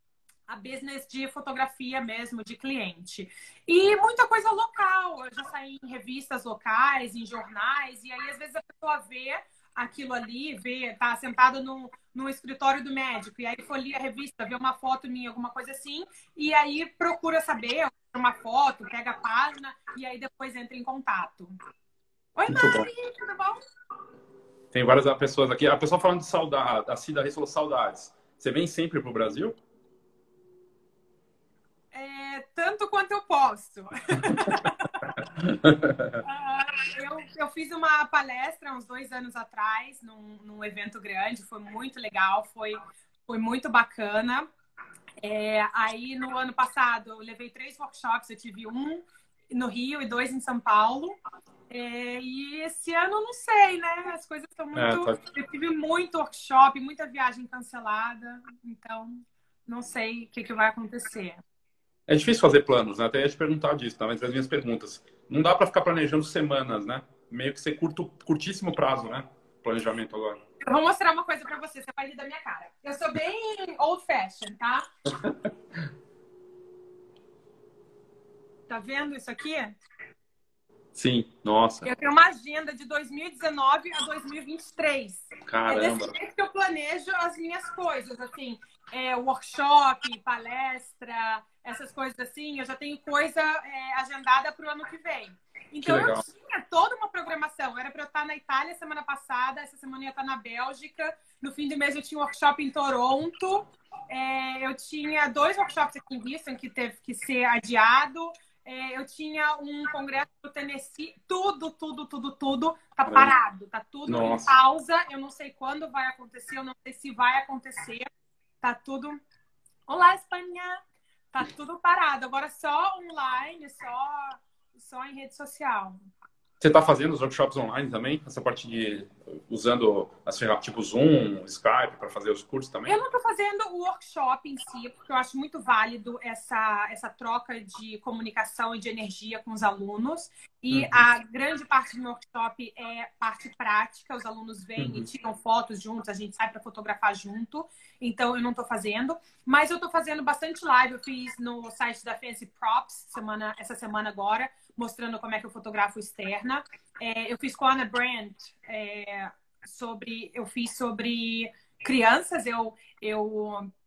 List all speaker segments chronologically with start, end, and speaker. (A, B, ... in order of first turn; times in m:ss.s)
0:00.5-0:21.5 A
0:22.4-0:23.6 A
0:22.5-0:22.9 B
0:24.7-0:29.6 B
0:31.9-0:35.0 A
0:35.4-0:36.2 B
0:36.2-0:44.5 A
0:45.2-0:51.2 A
0:51.7-1:01.4 A
0:54.8-0:55.2 B
1:02.1-1:10.4 B
1:10.6-1:14.8 A
1:18.7-1:19.8 A
1:20.9-1:21.9 B
1:21.8-1:58.1 A
1:25.5-1:26.2 B
1:35.8-1:36.2 B
1:53.1-1:53.3 B
1:54.1-1:54.5 B
1:58.6-1:59.2 A
1:59.9-2:00.8 A
2:01.3-2:06.0 A
2:06.6-2:13.0 B
2:12.9-2:43.7 A
2:20.7-2:21.1 B
2:24.8-2:25.1 B